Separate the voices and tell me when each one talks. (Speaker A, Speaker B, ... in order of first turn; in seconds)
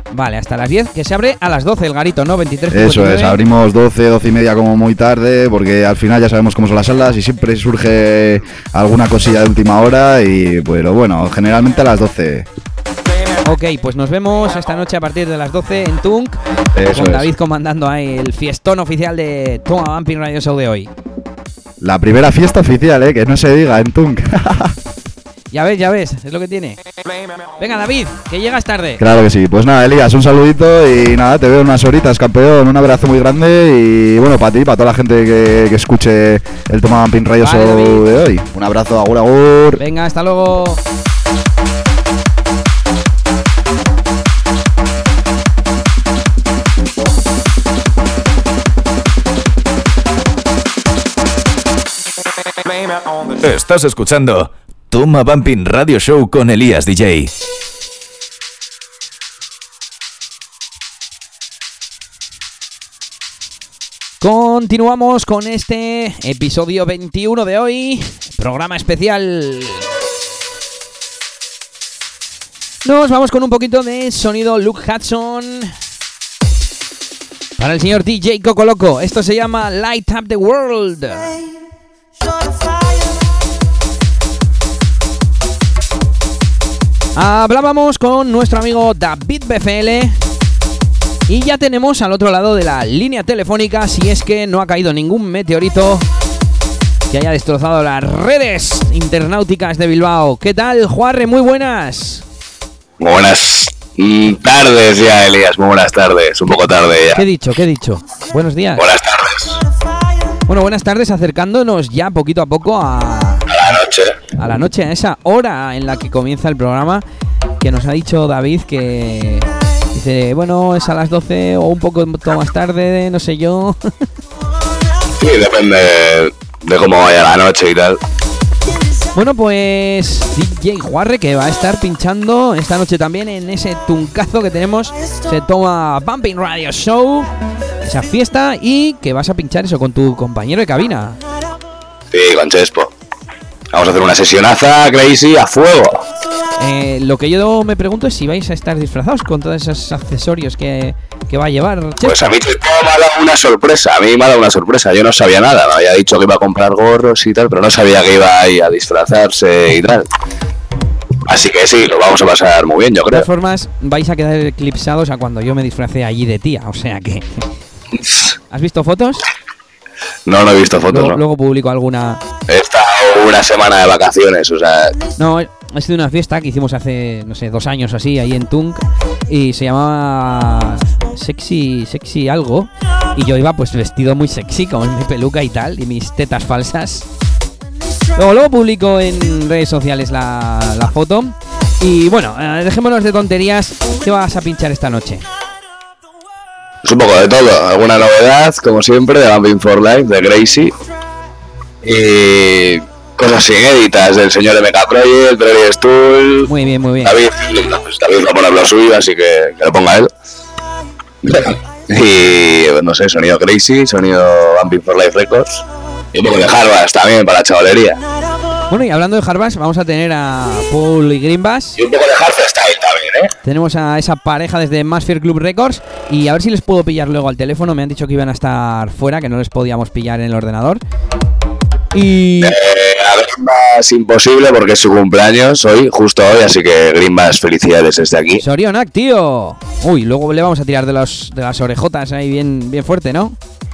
Speaker A: 0.1-3.4, 13.4-20.9, 25.5-26.8, 27.6-29.0, 37.4-38.1, 39.8-40.8, 64.2-69.8, 72.8-75.7, 77.6-81.3, 87.2-90.2, 91.3-96.0, 97.1-102.2, 107.1-108.8, 110.5-113.5, 114.4-117.0, 117.6-123.9, 129.1-137.3, 137.8-141.2, 146.6-152.4, 163.1-167.3, 168.5-169.2, 170.9-172.2, 175.2-187.0, 188.2-195.2, 206.5-207.2, 218.7-221.8, 223.4-230.8, 231.9-232.6, 238.4-243.4
Speaker B: 2.7-12.5, 16.7-17.3, 21.8-24.8, 29.0-39.8
Speaker C: 53.4-57.3
Speaker D: 103.0-107.2, 108.8-109.6, 113.5-114.2, 125.2-128.0, 142.1-142.9, 143.7-146.1, 152.0-160.1, 161.3-163.3, 167.9-168.3, 170.2-171.2, 172.5-175.0, 196.8-200.7, 201.8-206.5, 207.0-210.1, 211.2-218.0, 221.8-223.3, 232.4-238.4